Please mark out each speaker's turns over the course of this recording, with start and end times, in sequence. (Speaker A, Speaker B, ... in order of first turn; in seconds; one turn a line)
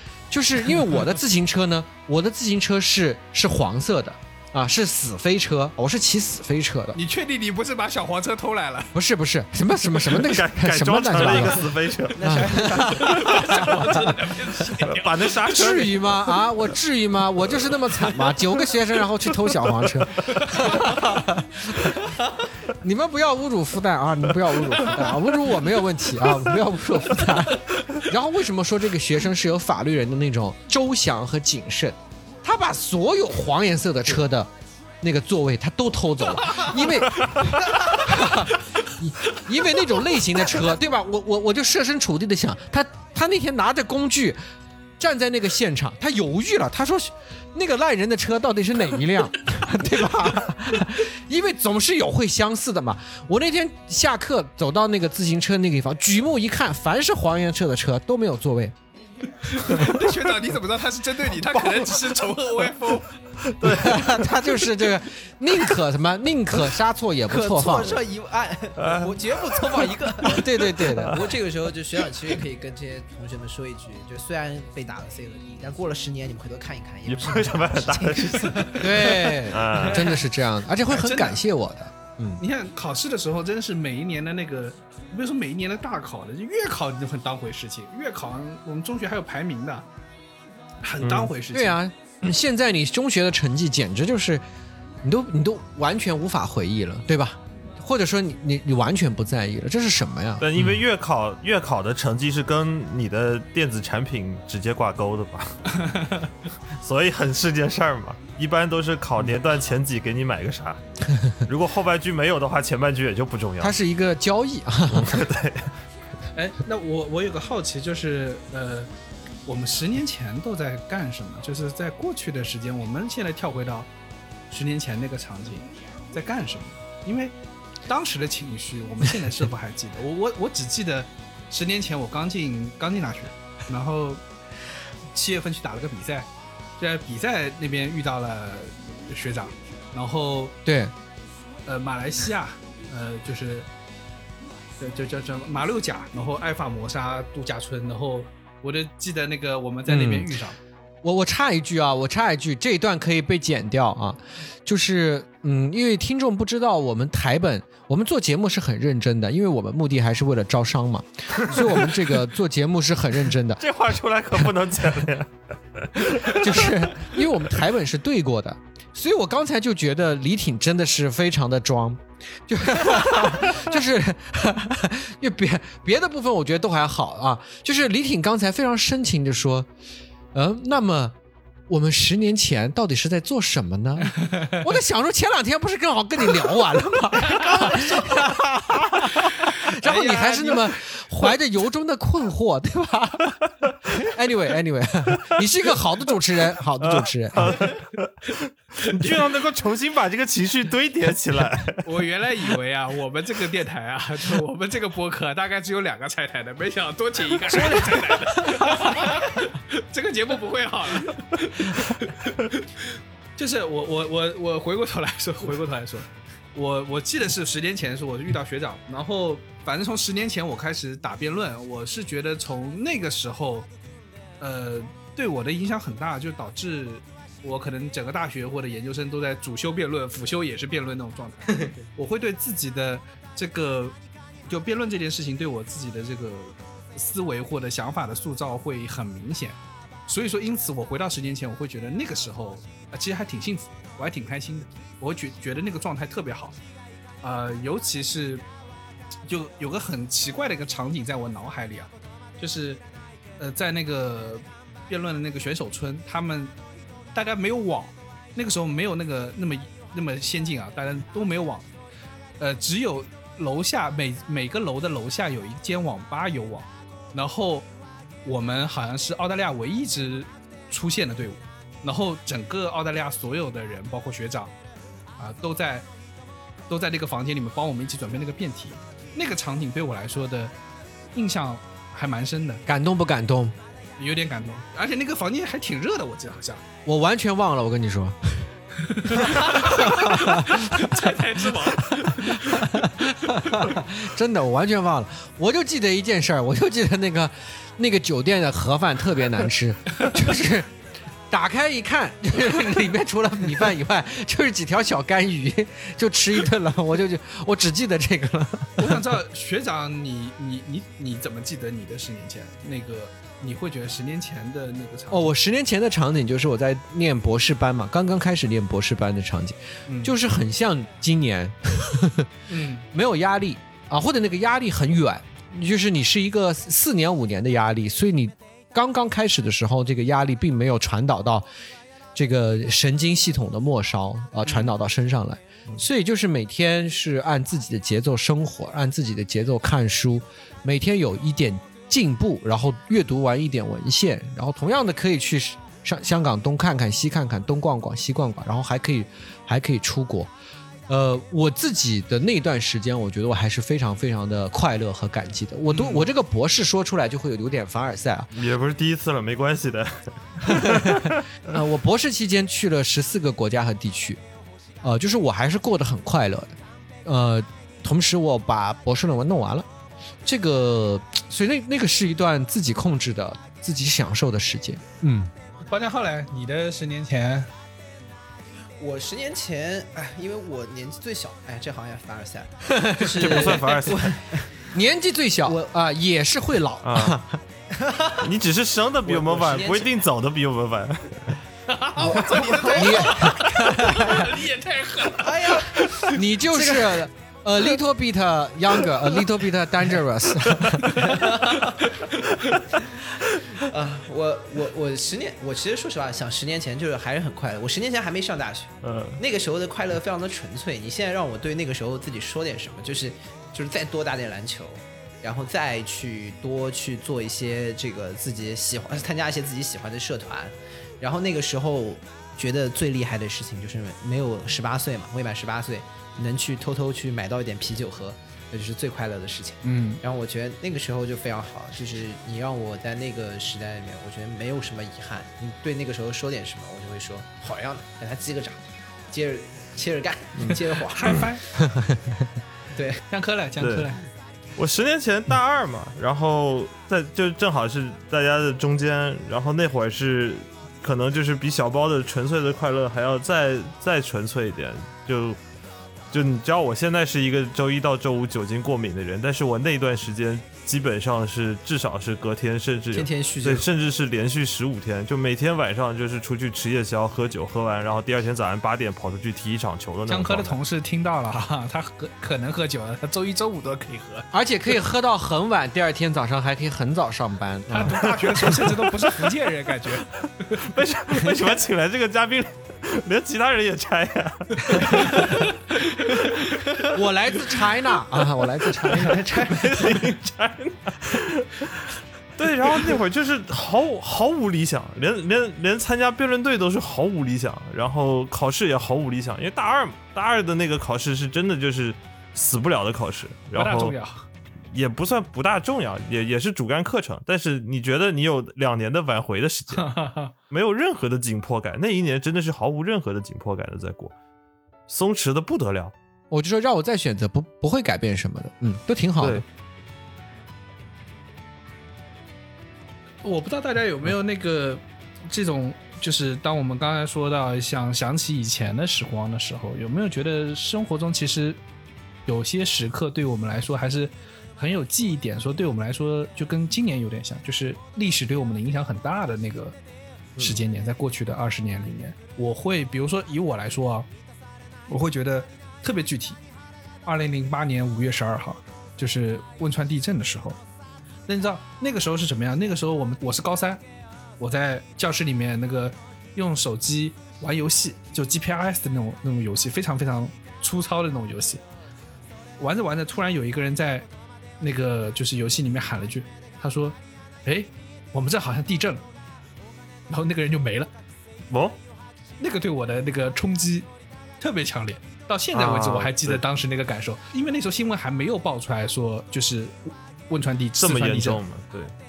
Speaker A: 0.3-7.0
Speaker B: 6.9-8.9
Speaker A: 8.9-11.6
Speaker C: 10.0-12.7
Speaker D: 12.1-13.5
Speaker A: 12.2-12.9
Speaker B: 12.8-15.9
Speaker C: 14.8-16.0
Speaker A: 15.5-22.0
Speaker B: 20.2-20.9
Speaker A: 22.6-34.5
Speaker A: 35.0-37.5
Speaker C: 37.2-37.5
Speaker A: 38.0-44.4
Speaker A: 45.0-58.7
Speaker B: 59.4-63.1
Speaker C: 61.5-62.2
Speaker C: 63.4-64.2
Speaker A: 63.8-68.0
Speaker D: 67.3-70.4
Speaker C: 68.8-71.0
Speaker A: 70.3-71.2
Speaker D: 71.0-78.8
Speaker C: 77.0-78.9
Speaker A: 78.8-82.4
Speaker C: 79.5-80.2
Speaker B: 79.8-80.2
Speaker B: 80.8-81.4
Speaker B: 82.4-89.9
Speaker B: 90.8-91.8
Speaker C: 91.0-91.3
Speaker A: 91.5-94.4
Speaker A: 95.0-100.4
Speaker C: 100.4-105.8
Speaker B: 105.8-106.3
Speaker C: 106.8-110.8
Speaker C: 111.4-113.8
Speaker A: 113.6-115.2
Speaker C: 114.9-115.7
Speaker B: 116.3-118.9
Speaker B: 119.4-123.9
Speaker B: 124.5-127.3
Speaker B: 127.9-134.2
Speaker B: 135.1-140.5
Speaker A: 140.6-140.9
Speaker B: 141.7-143.7
Speaker B: 144.8-150.6
Speaker A: 149.9-150.3
Speaker A: 151.0-163.6
Speaker C: 161.6-161.9
Speaker C: 163.6-167.2
Speaker A: 166.3-179.7
Speaker C: 173.0-173.6
Speaker A: 180.3-181.1
Speaker A: 181.7-193.3
Speaker B: 184.2-184.5
Speaker B: 187.3-187.9
Speaker B: 189.8-190.8
Speaker A: 194.0-197.6
Speaker C: 196.8-201.8
Speaker B: 201.8-223.7
Speaker C: 207.6-207.9
Speaker B: 224.4-233.9
Speaker B: 234.5-246.6
Speaker B: 247.2-248.4
Speaker B: 249.2-252.8
Speaker B: 253.4-256.5
Speaker B: 257.1-261.7
Speaker B: 262.4-267.7
Speaker B: 268.2-274.5
Speaker B: 275.2-275.9
Speaker B: 276.7-280.5
Speaker B: 281.1-282.6
Speaker A: 282.7-283.5
Speaker B: 284.0-286.6
Speaker A: 286.8-288.5
Speaker B: 288.9-293.7
Speaker A: 289.1-290.9
Speaker A: 292.3-300.7
Speaker A: 301.3-308.9
Speaker B: 308.8-315.3
Speaker A: 315.1-322.3
Speaker B: 319.9-320.1
Speaker B: 322.5-322.9
Speaker A: 322.9-331.5
Speaker A: 332.1-350.3
Speaker A: 350.9-358.3
Speaker B: 355.7-356.0
Speaker C: 358.3-361.2
Speaker A: 361.5-364.2
Speaker A: 364.8-369.7
Speaker A: 370.2-375.3
Speaker B: 375.6-377.5
Speaker D: 378.8-384.5
Speaker A: 382.7-383.0
Speaker C: 383.2-384.2
Speaker A: 384.7-387.4
Speaker C: 386.8-387.2
Speaker D: 387.7-388.2
Speaker C: 388.2-391.3
Speaker D: 389.0-389.9
Speaker B: 391.7-396.0
Speaker D: 392.0-393.4
Speaker A: 392.8-394.2
Speaker D: 395.2-396.0
Speaker A: 396.1-401.0
Speaker D: 396.5-396.9
Speaker D: 401.1-401.7
Speaker D: 403.5-441.2
Speaker C: 408.8-409.2
Speaker B: 429.6-430.0
Speaker B: 440.9-441.4
Speaker D: 442.7-443.0
Speaker B: 443.1-444.0
Speaker C: 443.6-443.9
Speaker C: 444.6-455.4
Speaker C: 456.1-470.6
Speaker D: 462.9-463.6
Speaker B: 470.1-474.2
Speaker A: 474.3-478.0
Speaker B: 477.7-480.1
Speaker C: 478.0-478.6
Speaker C: 480.6-485.5
Speaker B: 484.9-485.3
Speaker C: 486.1-486.6
Speaker A: 486.9-489.2
Speaker D: 489.0-489.9
Speaker C: 489.1-504.0
Speaker B: 503.5-504.2
Speaker C: 504.7-509.9
Speaker B: 509.7-510.3
Speaker C: 510.5-514.1
Speaker C: 514.9-515.9
Speaker A: 516.3-519.4
Speaker C: 519.2-519.4
Speaker B: 523.2-531.6
Speaker B: 532.2-539.8
Speaker B: 540.4-544.1
Speaker B: 544.9-546.4
Speaker B: 547.0-550.6
Speaker B: 551.3-553.8
Speaker B: 554.4-561.6
Speaker B: 562.6-564.1
Speaker B: 564.6-569.0
Speaker B: 570.1-570.9
Speaker C: 571.5-571.8
Speaker B: 572.4-573.9
Speaker B: 574.4-581.4
Speaker C: 575.5-576.4
Speaker C: 580.8-581.9